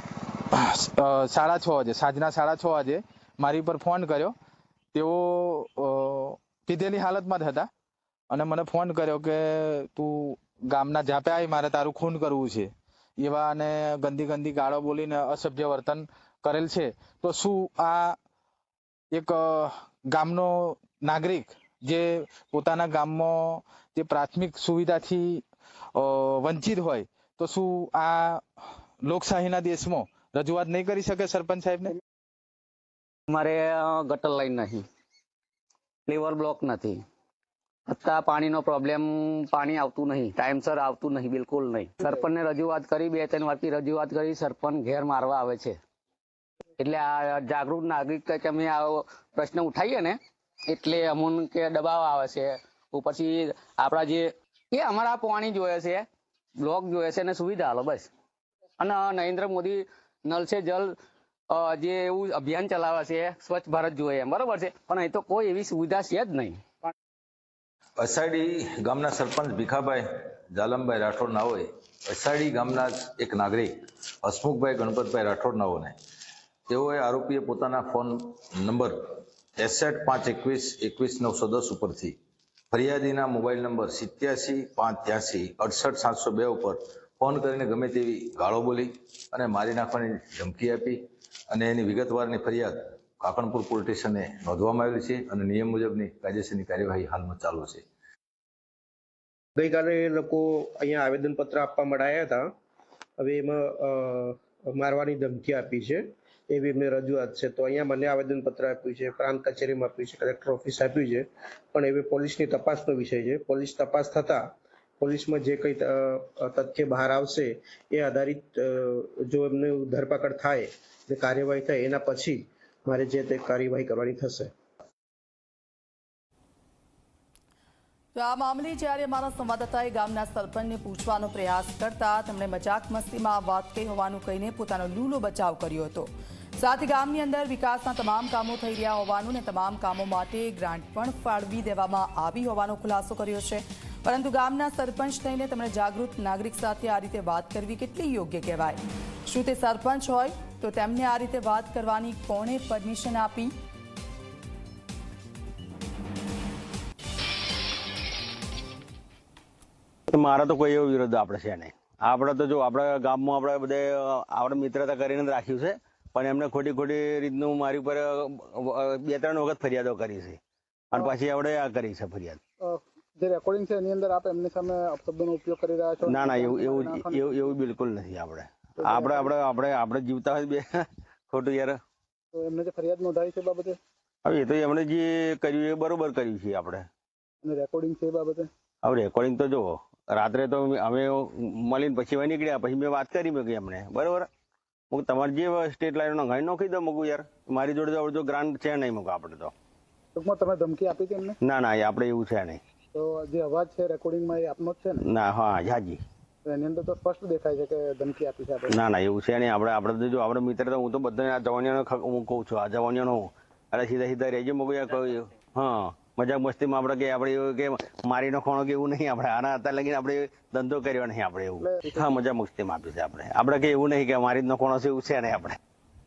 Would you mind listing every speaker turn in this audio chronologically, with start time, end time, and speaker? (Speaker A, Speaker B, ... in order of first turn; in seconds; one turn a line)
Speaker A: 0.5-4.3
Speaker A: 4.9-7.7
Speaker A: 8.3-18.2
Speaker A: 19.1-25.4
Speaker A: 25.9-28.4
Speaker A: 29.1-31.9
Speaker B: 33.3-34.9
Speaker B: 36.1-37.0
Speaker B: 37.9-45.8
Speaker B: 46.8-50.2
Speaker B: 50.7-56.1
Speaker B: 56.6-58.1
Speaker B: 58.8-61.0
Speaker B: 61.5-66.6
Speaker C: 68.0-76.0
Speaker C: 76.7-82.2
Speaker C: 82.7-97.8
Speaker D: 99.6-102.5
Speaker D: 103.2-114.5
Speaker D: 115.0-124.5
Speaker E: 128.1-153.5
Speaker F: 160.1-170.4
Speaker F: 170.9-172.4
Speaker G: 172.6-177.5
Speaker F: 176.0-181.8
Speaker G: 178.8-179.3
Speaker G: 182.3-183.8
Speaker F: 184.2-186.9
Speaker G: 187.4-188.5
Speaker F: 188.8-194.3
Speaker F: 194.9-199.5
Speaker G: 200.2-201.4
Speaker F: 201.4-202.6
Speaker G: 202.9-205.0
Speaker F: 205.0-206.0
Speaker G: 206.4-208.8
Speaker F: 208.7-225.6
Speaker G: 221.6-222.2